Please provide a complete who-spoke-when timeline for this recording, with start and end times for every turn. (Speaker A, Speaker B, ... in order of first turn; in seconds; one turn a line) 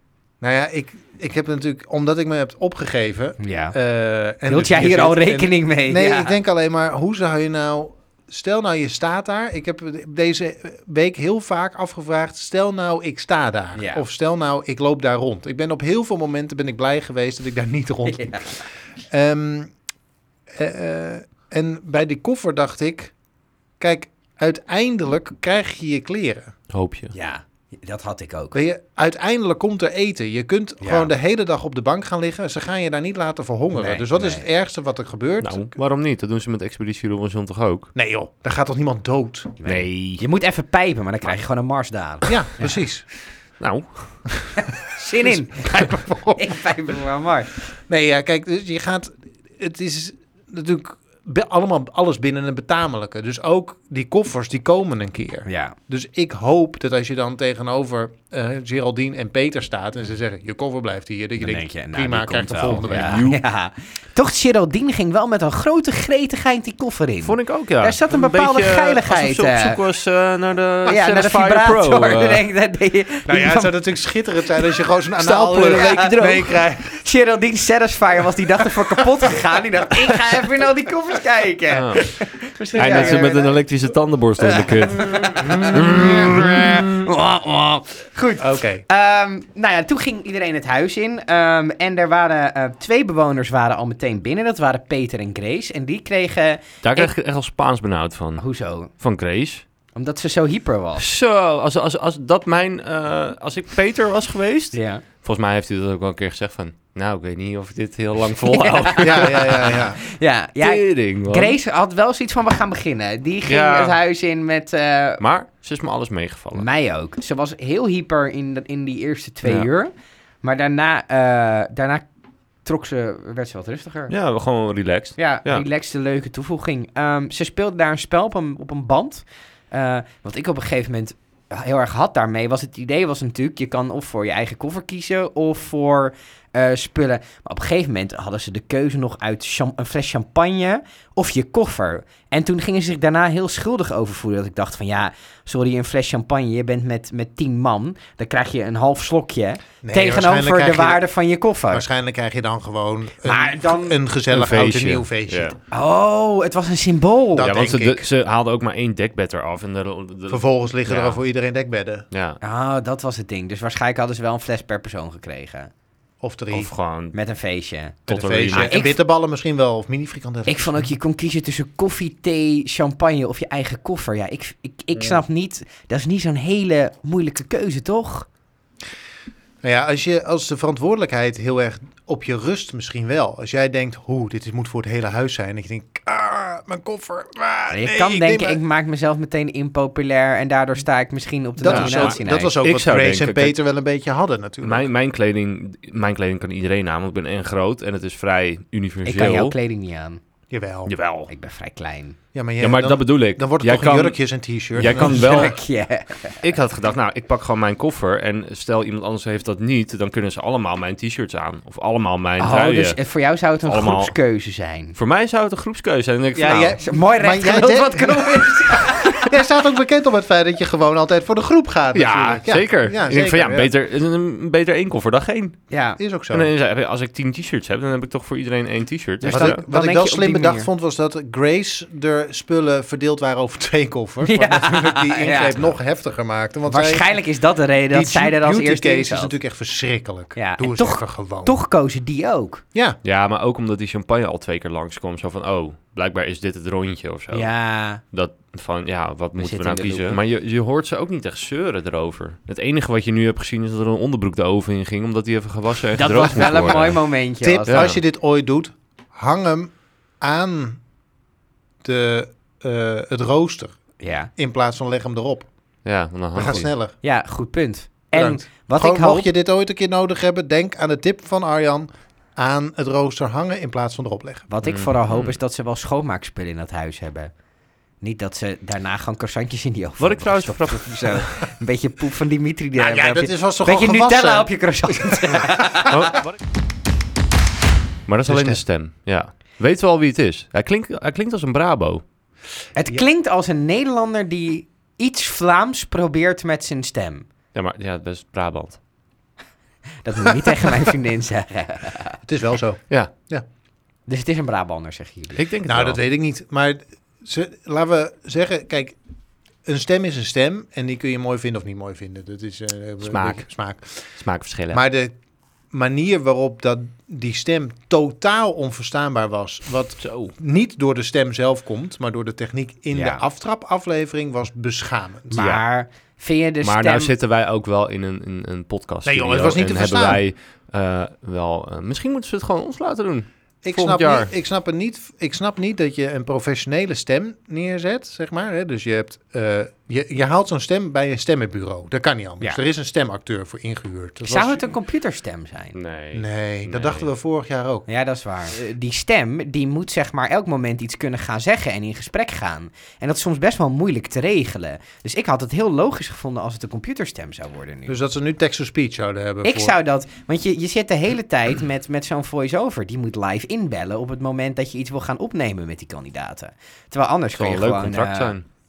Speaker A: 0.4-19.7
Speaker B: 3.4-3.7
Speaker B: 4.5-6.3
Speaker B: 13.8-14.0
Speaker B: 18.1-18.6
Speaker A: 20.5-23.1
Speaker A: 23.8-26.5
Speaker C: 26.7-27.1
Speaker B: 27.1-28.6
Speaker A: 28.5-35.7
Speaker B: 30.8-31.1
Speaker B: 33.7-34.4
Speaker C: 35.4-37.9
Speaker A: 37.9-39.5
Speaker B: 39.6-42.8
Speaker C: 39.6-40.2
Speaker A: 42.2-43.0
Speaker C: 43.6-44.6
Speaker B: 44.6-47.5
Speaker A: 45.2-46.6
Speaker A: 47.9-63.2
Speaker B: 55.5-55.7
Speaker B: 61.4-69.8
Speaker C: 62.7-63.4
Speaker C: 67.2-72.4
Speaker B: 70.8-73.7
Speaker A: 73.3-77.0
Speaker C: 75.2-76.6
Speaker B: 75.7-76.1
Speaker B: 76.8-83.4
Speaker C: 81.7-82.0
Speaker A: 82.6-83.6
Speaker C: 82.8-87.0
Speaker B: 84.4-97.1
Speaker A: 85.3-86.9
Speaker A: 88.4-88.8
Speaker C: 96.8-99.6
Speaker B: 98.4-98.9
Speaker B: 99.9-101.0
Speaker C: 101.0-109.8
Speaker B: 104.7-105.0
Speaker B: 108.4-115.2
Speaker A: 109.0-110.0
Speaker C: 110.6-111.6
Speaker C: 113.5-114.0
Speaker C: 115.2-116.7
Speaker B: 116.5-119.9
Speaker B: 120.4-122.0
Speaker B: 122.6-124.1
Speaker C: 124.1-125.7
Speaker B: 125.2-151.8
Speaker A: 149.8-151.0
Speaker A: 151.7-155.6
Speaker B: 153.2-154.0
Speaker C: 154.3-155.6
Speaker B: 155.7-157.5
Speaker A: 157.3-158.1
Speaker C: 157.4-161.2
Speaker A: 160.3-162.1
Speaker C: 162.1-162.4
Speaker B: 162.4-165.7
Speaker A: 166.2-166.7
Speaker C: 166.5-167.1
Speaker B: 167.1-168.0
Speaker C: 168.1-168.7
Speaker A: 168.1-170.9
Speaker B: 168.5-168.9
Speaker B: 170.5-178.3
Speaker A: 179.6-188.6
Speaker B: 187.7-192.5
Speaker A: 191.6-194.8
Speaker C: 191.6-193.6
Speaker C: 194.6-199.5
Speaker B: 199.0-200.2
Speaker A: 200.5-200.9
Speaker C: 200.8-201.3
Speaker B: 201.3-202.2
Speaker A: 202.3-205.5
Speaker C: 202.6-204.2
Speaker C: 204.7-205.6
Speaker B: 204.8-206.4
Speaker C: 206.4-213.0
Speaker B: 212.4-214.9
Speaker C: 213.7-214.1
Speaker C: 214.9-216.8
Speaker A: 216.3-223.7
Speaker B: 216.8-219.3
Speaker C: 221.9-225.6
Speaker B: 225.7-226.0
Speaker A: 226.0-226.5
Speaker C: 226.3-229.6
Speaker B: 229.2-230.7
Speaker A: 229.2-237.1
Speaker B: 234.2-235.6
Speaker B: 236.7-239.3
Speaker A: 237.9-241.5
Speaker B: 240.3-242.6
Speaker C: 243.0-247.5
Speaker B: 247.3-248.0
Speaker C: 248.1-257.0
Speaker B: 249.4-250.2
Speaker B: 255.9-257.9
Speaker A: 256.2-256.8
Speaker A: 257.4-260.8
Speaker C: 257.7-258.0
Speaker A: 261.8-263.8
Speaker B: 264.0-264.3
Speaker A: 264.4-265.5
Speaker C: 265.8-266.7
Speaker A: 266.3-266.9
Speaker B: 267.0-269.3
Speaker A: 268.1-274.5
Speaker B: 274.5-277.3
Speaker C: 274.6-275.3
Speaker B: 278.0-286.0
Speaker C: 280.0-281.3
Speaker A: 282.8-285.8
Speaker C: 285.9-286.3
Speaker C: 288.1-292.0
Speaker A: 288.2-288.6
Speaker B: 292.8-297.3
Speaker C: 297.5-298.8
Speaker B: 300.0-302.2
Speaker A: 302.2-303.4
Speaker B: 304.1-305.4
Speaker C: 305.4-306.0
Speaker A: 305.6-308.9
Speaker A: 309.6-313.8
Speaker C: 313.0-313.5
Speaker C: 314.2-314.8
Speaker A: 314.7-315.1
Speaker A: 315.7-325.4
Speaker C: 320.0-320.3
Speaker B: 322.9-323.2
Speaker B: 325.3-327.1
Speaker C: 325.3-325.6
Speaker C: 326.6-334.3
Speaker A: 329.0-330.2
Speaker A: 333.6-344.7
Speaker B: 344.2-345.8
Speaker C: 345.7-347.1
Speaker A: 346.1-347.9
Speaker B: 347.9-357.9
Speaker A: 357.9-359.8
Speaker B: 359.4-368.3
Speaker C: 367.4-368.4